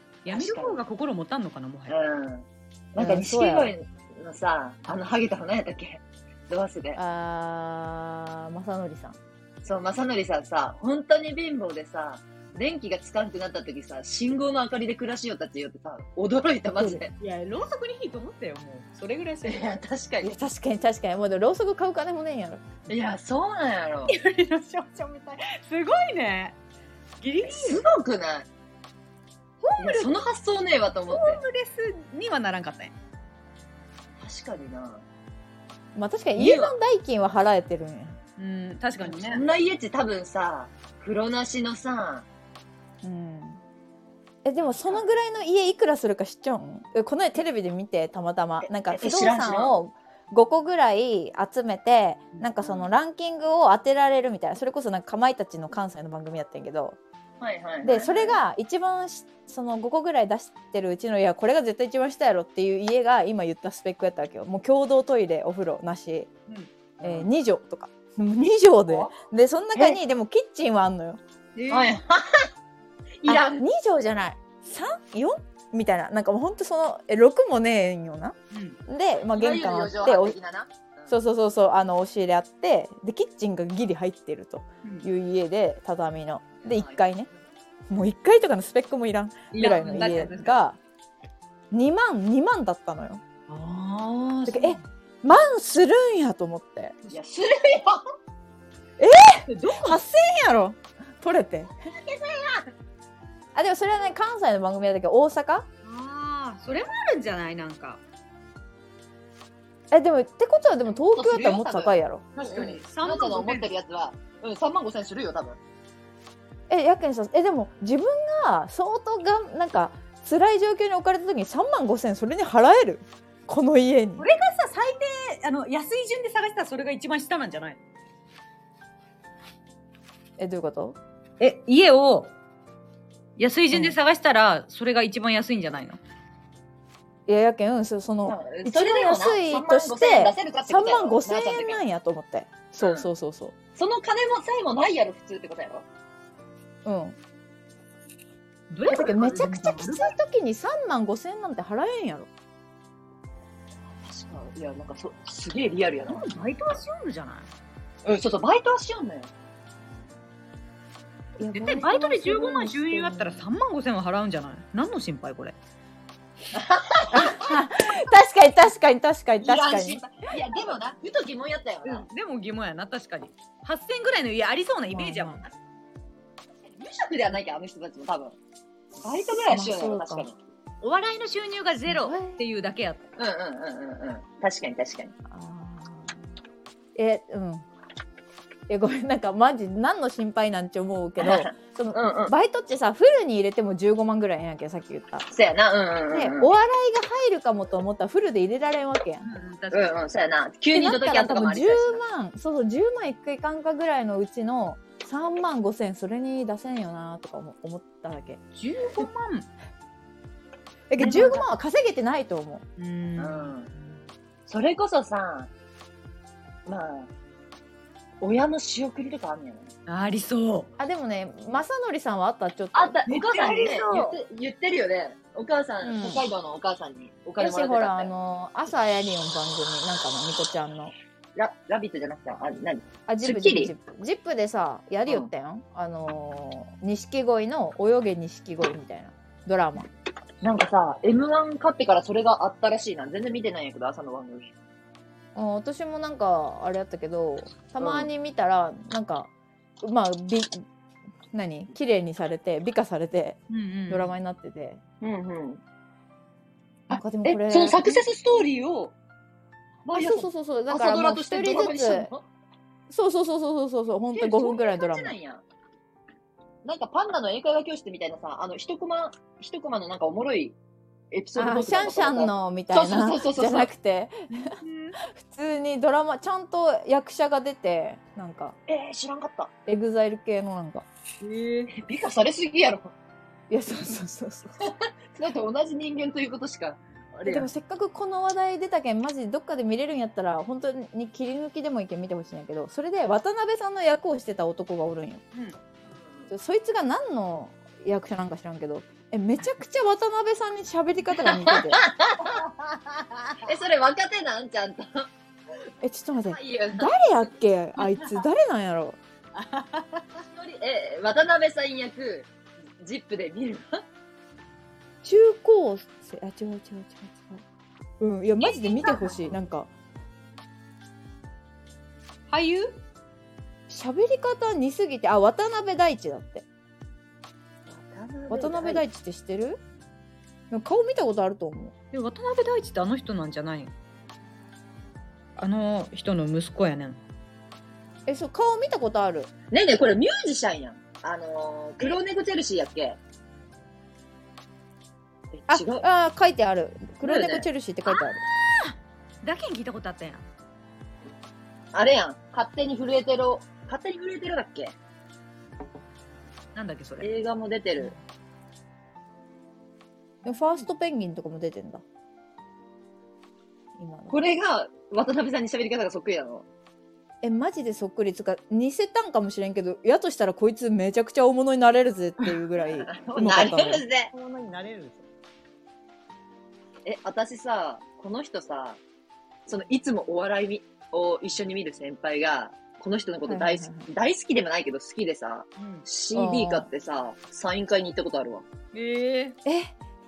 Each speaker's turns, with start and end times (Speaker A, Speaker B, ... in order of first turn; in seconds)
Speaker A: 0.2-1.9, 17.1-19.8, 24.1-26.6, 27.2-27.8, 29.6-30.1, 31.1-32.9, 36.4-36.7, 38.4-39.5, 66.5-67.2, 71.6-72.0, 78.5-78.8, 89.5-90.5, 93.5-94.8, 99.5-100.0, 105.8-108.0, 112.4-113.7, 124.2-127.8, 131.4-132.3, 133.4-136.0, 148.7-150.2, 156.1-157.5, 161.5-165.6, 171.8-175.4, 180.8-183.0, 199.2-199.9, 208.6-209.5, 212.8-214.0, 219.9-220.7, 223.1-224.1, 253.5-254.1, 274.3-275.0, 281.2-281.7, 309.4-310.1, 318.8-319.1, 322.3-322.8, 331.9-333.7, 335.4-337.0, 347.9-350.2, 356.6-357.1, 374.1-375.1, 385.6-385.9, 388.7-389.4
Speaker B: 0.3-0.8, 1.9-7.0, 9.6-17.1, 19.4-20.3, 22.9-24.1, 27.4-28.5, 29.8-31.4, 34.2-35.0, 39.0-42.3, 44.6-45.1, 48.6-49.8, 52.6-52.9, 57.4-58.4, 68.9-69.1, 71.7-72.5, 73.2-73.6, 79.3-81.2, 86.6-87.0, 89.6-90.4, 97.1-98.0, 101.9-102.7, 110.9-115.6, 138.2-141.8, 142.8-143.1, 143.8-145.9, 154.0-156.3, 158.1-159.3, 166.5-167.6, 169.4-172.1, 176.7-178.4, 179.0-180.4, 183.2-185.1, 191.2-192.3, 195.3-196.5, 199.7-202.0, 211.0-211.5, 213.2-213.7, 214.5-215.5, 216.7-217.1, 218.2-219.7, 222.7-228.1, 231.3-233.7, 240.4-244.5, 247.8-248.1, 255.0-255.6, 256.9-258.9, 259.9-262.3, 264.1-265.4, 266.6-270.6, 271.1-273.7, 278.7-279.5, 281.7-282.9, 284.6-287.5, 295.9-296.3, 301.2-302.5, 303.4-305.1, 306.3-307.3, 310.2-313.8, 318.4-319.1, 327.7-328.9, 339.5-343.0, 345.3-345.9, 347.0-347.5, 351.7-354.8, 357.0-357.9, 364.1-366.5, 372.8-374.1, 376.9-378.8, 379.5-388.4
Speaker C: 3.0-3.7, 7.0-9.2, 20.2-22.6, 36.0-38.2, 43.0-43.6, 44.5-57.0, 57.8-66.3, 67.0-71.2, 73.3-78.4, 78.9-80.4, 81.1-87.3, 87.9-90.8, 91.7-93.2, 94.5-97.0, 99.0-101.7, 103.5-105.7, 109.9-112.3, 116.7-124.3, 130.4-131.0, 137.3-143.6, 146.8-147.2, 148.9-152.3, 161.4-163.4, 167.1-170.0, 174.9-175.5, 179.3-180.3, 181.9-182.4, 185.3-186.2, 187.0-187.7, 188.7-195.3, 196.1-199.3, 200.7-208.4, 210.9-212.6, 220.8-223.0, 225.8-226.2, 227.4-230.9, 233.1-239.9, 245.3-249.3, 249.8-250.7, 251.3-254.8, 256.9-258.0, 259.9-262.1, 262.9-265.1, 271.4-278.6, 279.7-280.9, 283.5-284.6, 287.2-295.2, 296.3-301.9, 305.8-309.0, 315.0-317.4, 318.0-319.7, 323.7-326.5, 328.3-329.6, 330.5-331.7, 338.1-339.3, 345.5-348.2, 360.2-361.8, 363.8-364.2, 367.2-373.8, 383.3-383.9, 386.1-386.7, 389.4-389.7